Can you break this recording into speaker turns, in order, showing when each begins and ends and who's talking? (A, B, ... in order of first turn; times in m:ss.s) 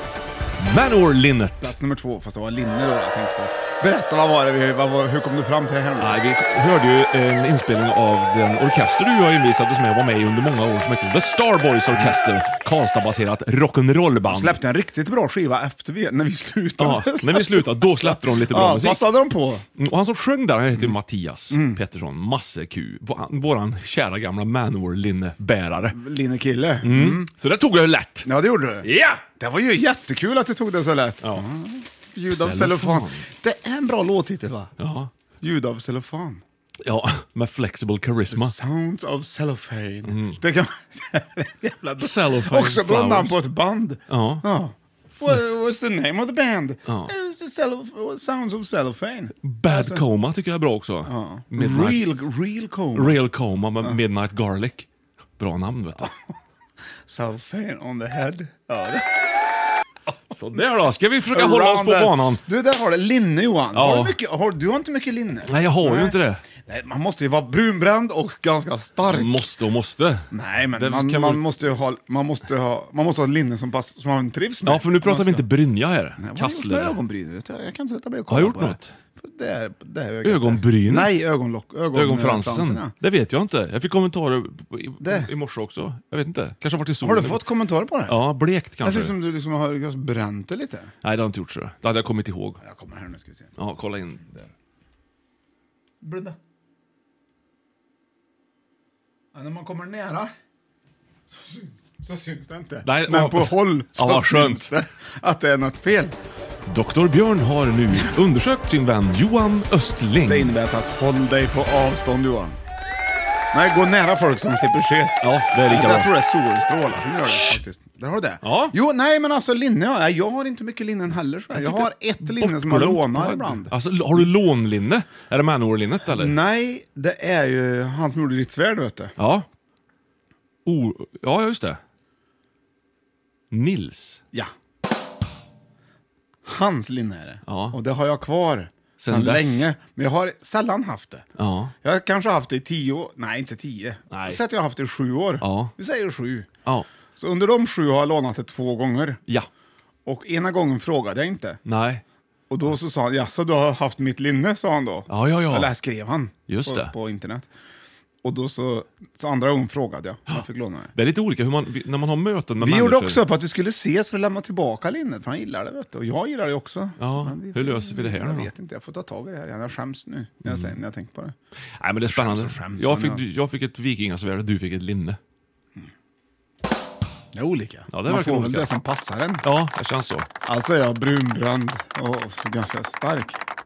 0:00.6-0:01.8 A
0:01.6-0:06.2 B
0:06.0-0:14.6 A
0:14.3-0:19.6 B
0:16.8-0:19.0 A
0:19.8-0:26.0 A
0:21.5-0:21.8 B
0:25.9-0:27.3 B
0:26.8-0:28.3 A
0:28.2-0:34.7 B
0:28.8-0:29.2 A
0:32.3-0:33.2 A
0:34.8-0:35.1 A
0:35.4-0:36.4 B
0:36.8-0:38.5 A
0:38.3-0:50.0 B
0:40.1-0:40.4 A
0:42.0-0:43.4 A
0:44.1-0:44.4 A
0:49.4-0:52.2 A
0:51.0-0:53.2 B
0:53.0-0:56.1 A
0:57.1-0:59.1 B
1:00.3-1:02.4 A
1:01.3-1:09.4 B
1:03.7-1:04.2 A
1:05.5-1:06.4 A
1:09.1-1:11.4 A
1:10.3-1:15.5 B
1:14.7-1:17.0 A
1:16.2-1:22.9 B
1:18.3-1:18.9 A
1:20.2-1:21.2 A
1:21.9-1:27.4 A
1:25.0-1:25.3 B
1:27.0-1:28.2 B
1:28.1-1:29.2 A
1:28.8-1:30.9 B
1:31.0-1:32.6 A
1:32.6-1:33.5 B
1:33.6-1:34.5 A
1:36.0-1:36.4 B
1:39.3-1:40.3 B
1:41.3-1:46.2 B
1:42.8-1:44.7 A
1:46.7-1:50.5 A
1:50.3-1:52.6 B
1:53.5-2:04.2 B
1:55.2-1:56.1 A
1:57.3-1:57.6 A
1:58.4-1:58.7 A
2:01.5-2:06.4 A
2:06.1-2:09.1 B
2:09.2-2:09.5 A
2:10.7-2:11.8 A
2:13.5-2:14.2 A
2:16.4-2:21.3 B
2:17.5-2:17.8 A
2:19.0-2:19.6 A
2:21.4-2:21.7 A
2:21.8-2:26.5 B
2:24.1-2:24.4 A
2:25.4-2:25.7 A
2:27.2-2:29.2 B
2:30.1-2:31.6 B
2:31.7-2:32.0 A
2:32.5-2:37.5 B
2:35.1-2:35.7 A
2:36.5-2:36.9 A
2:38.2-2:40.9 B
2:41.0-2:43.2 A
2:42.6-2:51.4 B
2:47.0-2:48.5 A
2:50.4-2:50.7 A
2:51.8-2:55.2 A
2:52.1-2:53.2 B
2:57.3-2:59.5 B
2:57.9-2:58.7 A
2:59.4-3:00.3 A
3:00.4-3:03.4 B